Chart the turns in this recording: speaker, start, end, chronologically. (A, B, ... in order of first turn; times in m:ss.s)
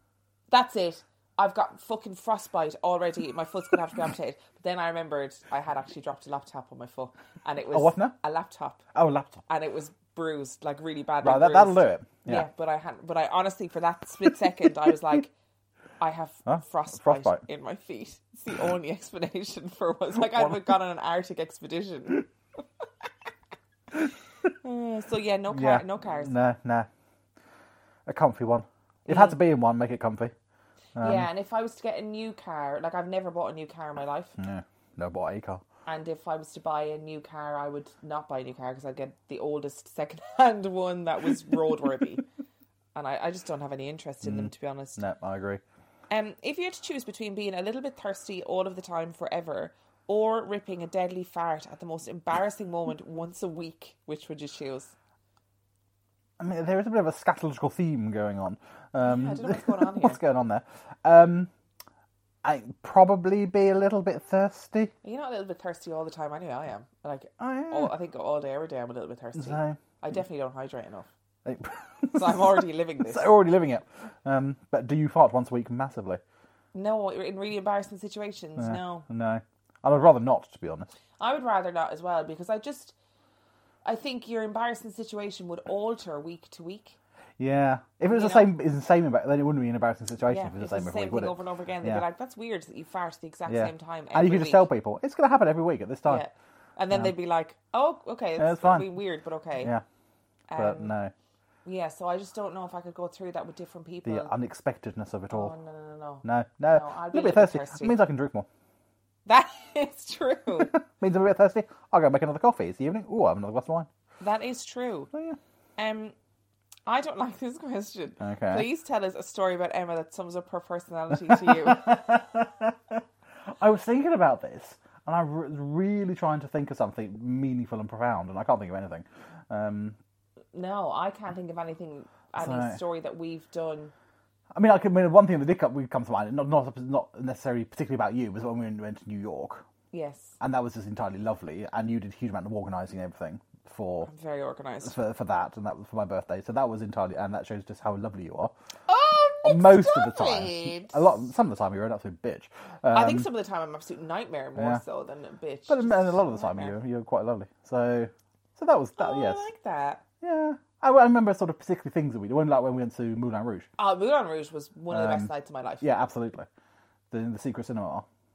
0:00.5-0:08.8 A
0:07.7-0:08.2 B
0:08.9-0:09.4 B
0:09.5-0:15.3 A
0:11.2-0:12.5 B
0:16.0-0:22.3 A
0:16.5-0:17.4 B
0:20.2-0:20.6 B
0:24.5-0:26.4 A
0:25.5-0:26.9 B
0:28.1-0:30.3 B
0:29.1-0:29.4 A
0:31.0-0:31.3 B
0:31.0-0:34.4 A
0:34.4-0:35.6 B
0:35.9-0:42.2 A
0:43.0-0:45.0 A
0:44.2-0:45.6 B
0:46.1-0:54.9 A
0:56.4-1:01.5 B
0:59.0-1:00.2 A
1:02.4-1:04.9 B
1:05.0-1:11.1 A
1:07.4-1:07.9 B
1:09.4-1:09.8 B
1:11.4-1:16.2 B
1:12.1-1:13.3 A
1:16.7-1:19.1 A
1:18.6-1:20.9 B
1:21.2-1:23.0 A
1:23.8-1:27.0 A
1:27.4-1:32.0 B
1:28.1-1:28.5 A
1:30.3-1:34.7 A
1:33.5-1:36.2 B
1:36.0-1:39.7 A
1:38.4-1:38.9 B
1:39.6-1:39.8 B
1:40.5-1:41.0 A
1:40.6-1:41.1 B
1:41.6-1:44.3 A
1:44.0-1:45.5 B
1:45.3-1:48.0 A
1:46.2-1:48.5 B
1:49.2-1:50.7 A
1:50.6-1:53.9 B
1:54.2-1:55.1 A
1:55.8-1:56.2 A
1:56.9-2:02.2 A
1:58.2-1:58.7 B
2:01.1-2:03.0 B
2:03.6-2:10.0 B
2:10.5-2:13.9 A
2:12.4-2:12.8 B
2:14.5-2:19.6 B
2:19.9-2:20.4 A
2:20.4-2:24.1 B
2:24.0-2:25.0 A
2:24.8-2:28.5 B
2:28.9-2:31.1 A
2:29.4-2:33.3 B
2:32.9-2:36.8 A
2:34.6-2:34.8 B
2:35.7-2:39.5 B
2:39.0-2:40.0 A
2:40.2-2:43.7 B
2:43.8-2:45.9 A
2:44.9-2:46.5 B
2:47.1-2:48.1 B